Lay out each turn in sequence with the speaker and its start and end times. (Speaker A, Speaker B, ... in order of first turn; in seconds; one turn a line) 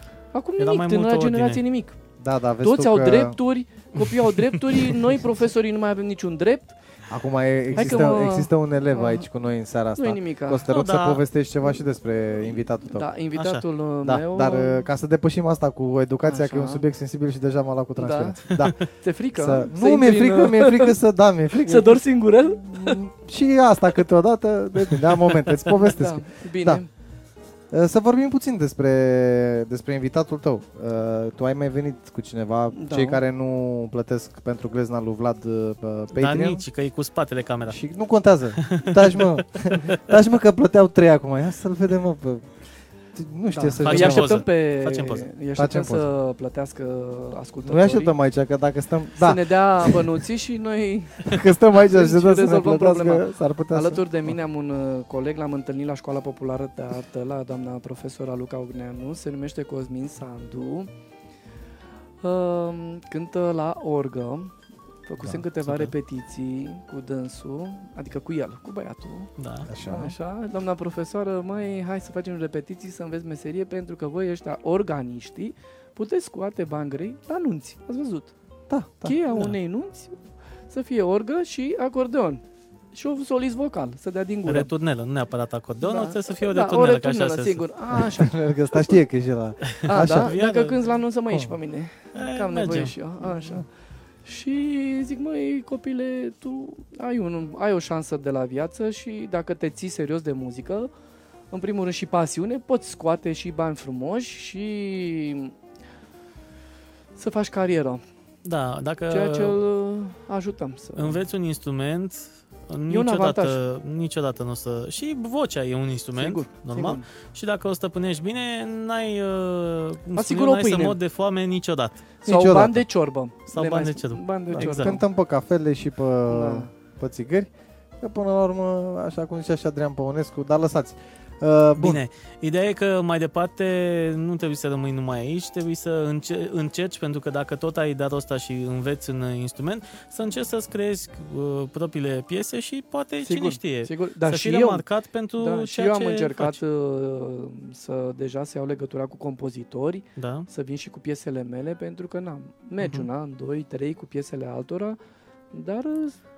Speaker A: 0.3-2.0
Speaker B: 0.6-1.6
Speaker C: 2.2-3.4
Speaker A: 2.6-6.8
Speaker B: 4.0-5.0
Speaker C: 7.1-13.1
Speaker B: 7.7-8.1
Speaker A: 7.8-9.3
Speaker A: 9.9-10.7
Speaker B: 10.7-11.2
Speaker A: 12.9-14.9
Speaker B: 13.3-13.6
Speaker C: 14.0-18.8
Speaker A: 16.3-16.8
Speaker A: 18.0-20.9
Speaker B: 18.5-18.9
Speaker C: 19.4-22.0
Speaker A: 21.6-23.0
Speaker C: 22.6-26.8
Speaker A: 25.7-26.9
Speaker C: 27.7-36.7
Speaker A: 32.7-33.2
Speaker B: 36.1-37.8
Speaker C: 37.7-42.5
Speaker B: 38.6-40.1
Speaker C: 43.1-44.4
Speaker A: 43.5-48.1
Speaker B: 43.8-45.3
Speaker C: 45.6-46.1
Speaker C: 47.6-50.1
Speaker A: 49.2-60.9
Speaker C: 51.2-54.4
Speaker A: 62.2-64.5
Speaker A: 65.1-69.3
Speaker B: 65.6-65.9
Speaker B: 69.4-69.7
Speaker C: 69.7-70.1
Speaker A: 69.9-78.3
Speaker C: 78.7-79.2
Speaker A: 79.0-80.2
Speaker A: 80.7-82.4
Speaker A: 82.9-84.7
Speaker B: 84.5-87.6
Speaker A: 85.8-89.0
Speaker C: 87.9-90.4
Speaker B: 89.6-90.9
Speaker A: 89.9-93.7
Speaker C: 91.3-91.6
Speaker B: 92.1-92.9
Speaker A: 94.2-100.9
Speaker A: 101.5-105.5
Speaker A: 107.2-108.0
Speaker B: 108.4-109.6
Speaker A: 109.1-111.2
Speaker B: 111.0-122.1
Speaker A: 112.9-113.6
Speaker A: 116.2-117.0
Speaker A: 120.2-121.0
Speaker A: 122.2-125.0
Speaker C: 122.2-122.8
Speaker B: 123.5-125.0
Speaker C: 124.5-132.0
Speaker A: 126.3-126.7
Speaker B: 131.8-146.6
Speaker A: 143.2-144.8
Speaker A: 145.4-155.0
Speaker B: 150.2-150.5
Speaker B: 152.8-153.1
Speaker A: 155.5-156.2